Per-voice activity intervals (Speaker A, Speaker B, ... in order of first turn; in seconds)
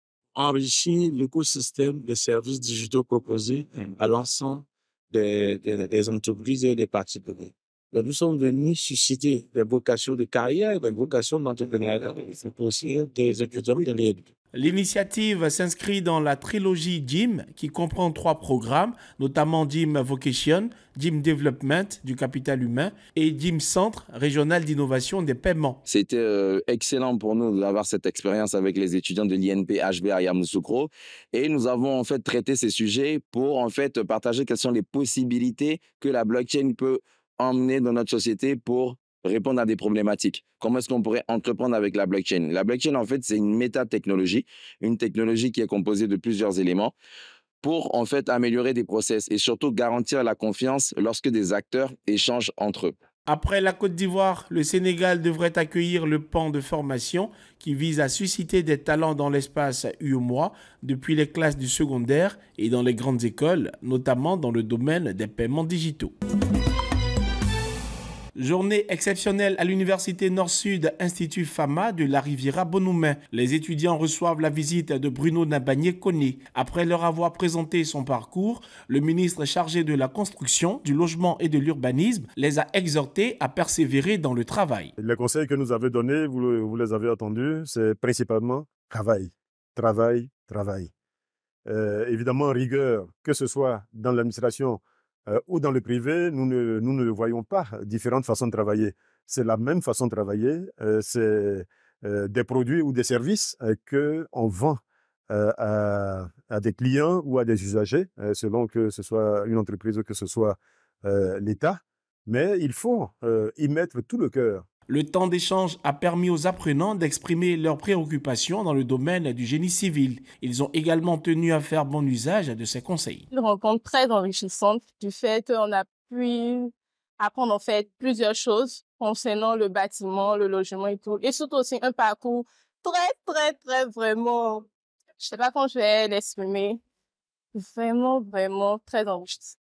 Speaker A: 0.3-14.3
Speaker B: 14.5-25.8, 53.2-66.1, 68.3-84.9, 114.9-123.2
Speaker C: 25.9-46.9, 47.6-52.9
Speaker D: 85.0-90.9, 91.7-114.6
Speaker E: 123.3-134.7, 135.2-136.8, 137.5-139.5